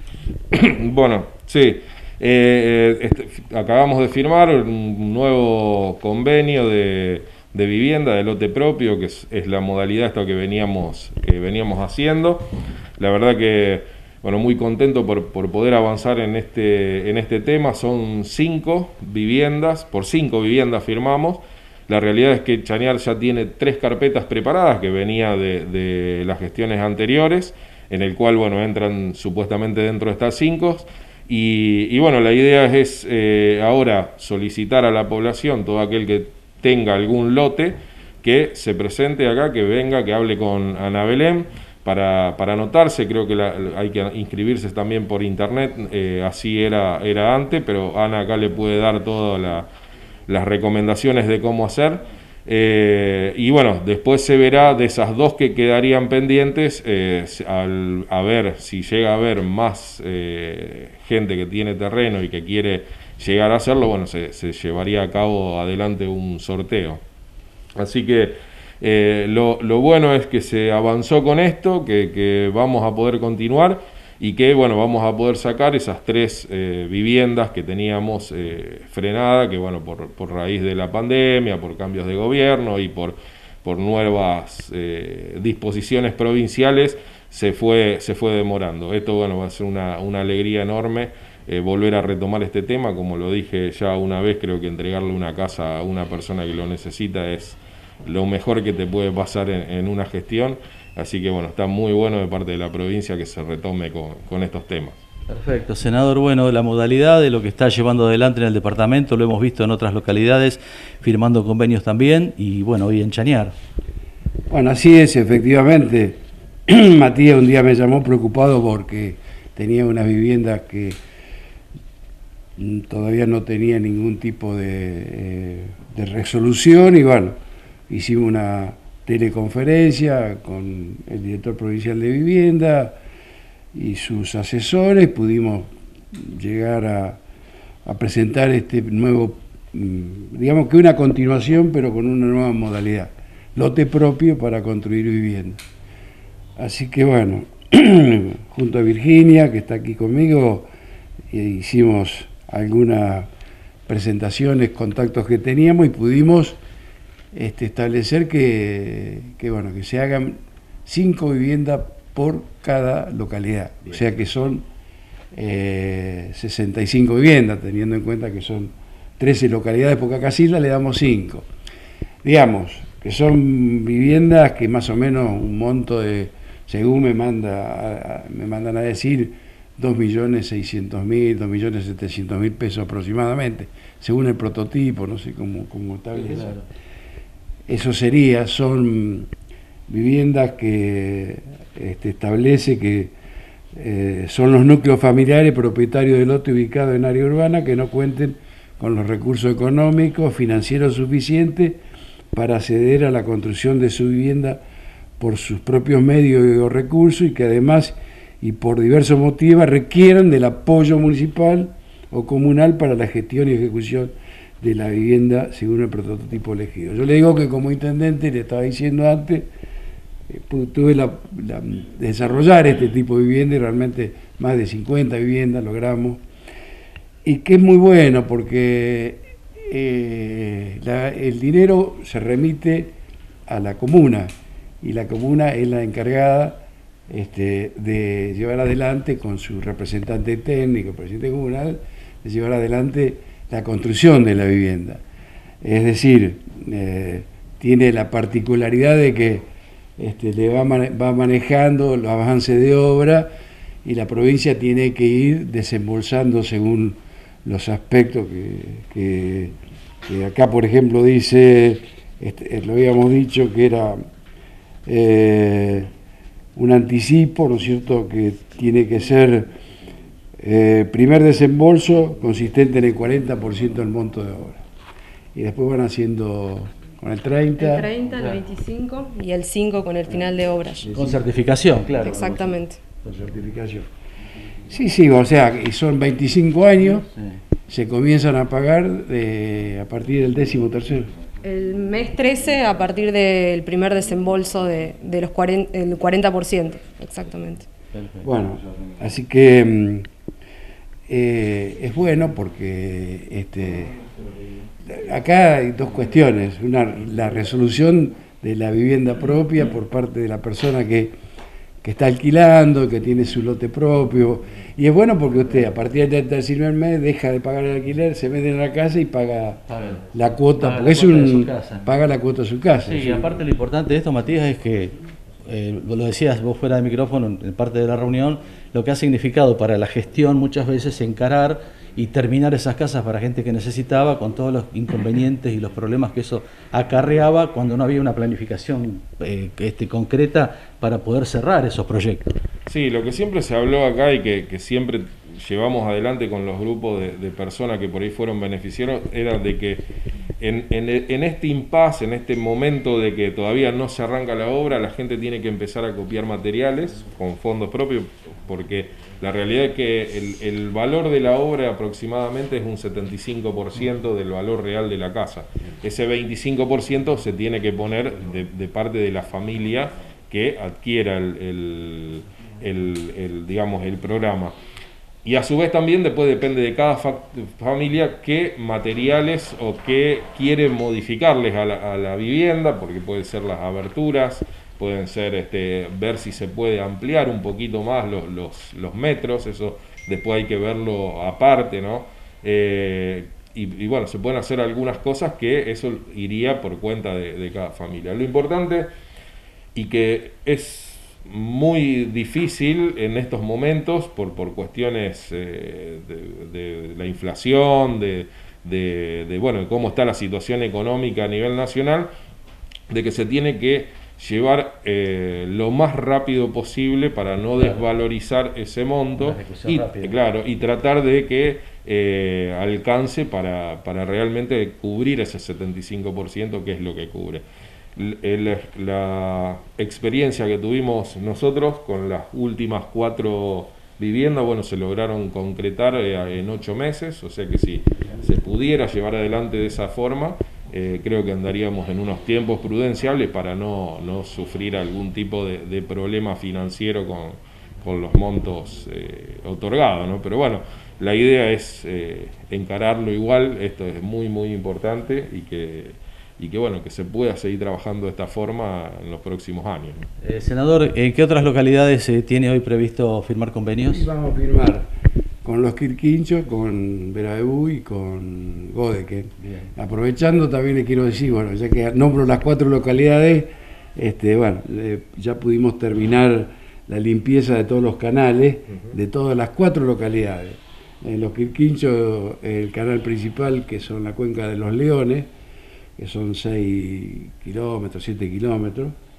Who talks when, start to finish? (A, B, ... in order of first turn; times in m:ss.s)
0:00.5-0:12.5 A
0:13.0-0:49.7 A
0:50.3-1:07.0 A
1:07.8-1:45.0 A
1:45.3-1:53.6 B
1:54.5-2:01.0 C
2:02.6-2:07.4 C
2:07.9-2:13.0 C
2:13.7-2:17.2 C
2:17.8-2:25.6 C
2:26.6-2:30.7 C
2:31.3-2:33.3 C
2:33.9-2:36.6 C
2:37.3-2:44.7 C
2:45.3-2:51.5 C
2:52.2-3:06.6 C
3:06.3-3:06.6 B
3:07.7-3:09.3 C
3:09.9-3:13.1 C
3:13.8-3:21.8 C
3:22.3-3:24.6 C
3:25.2-3:39.5 C
3:40.3-3:46.2 C
3:47.2-3:52.9 C
3:53.5-4:05.0 C
4:05.6-4:13.3 C
4:13.8-4:19.6 C
4:20.1-4:24.0 C
4:24.9-4:25.9 C
4:26.6-4:29.5 C
4:30.4-4:34.6 C
4:35.4-4:37.9 C
4:37.6-4:40.9 D
4:40.9-4:42.6 B
4:42.0-4:42.8 D
4:43.0-4:43.9 C
4:44.7-4:47.1 C
4:47.0-4:47.4 B
4:47.7-4:51.1 C
4:51.4-4:57.7 D
4:57.9-4:58.2 B
4:58.2-5:00.1 C
5:01.1-5:04.0 C
5:04.9-5:11.2 C
5:11.8-5:23.4 C
5:19.7-5:20.0 B
5:20.6-5:21.8 B
5:22.8-5:24.9 B
5:25.4-5:42.4 B
5:42.7-5:49.8 A
5:50.4-6:14.6 A
6:15.2-6:38.9 A
6:39.8-6:52.1 A
6:52.9-7:07.4 A
6:57.6-6:57.8 B
6:59.2-7:00.2 B
7:08.0-7:40.1 A
7:40.2-7:44.1 B
7:43.9-7:44.9 C
7:45.4-8:05.3 C
7:49.4-7:49.7 B
8:06.0-8:08.9 C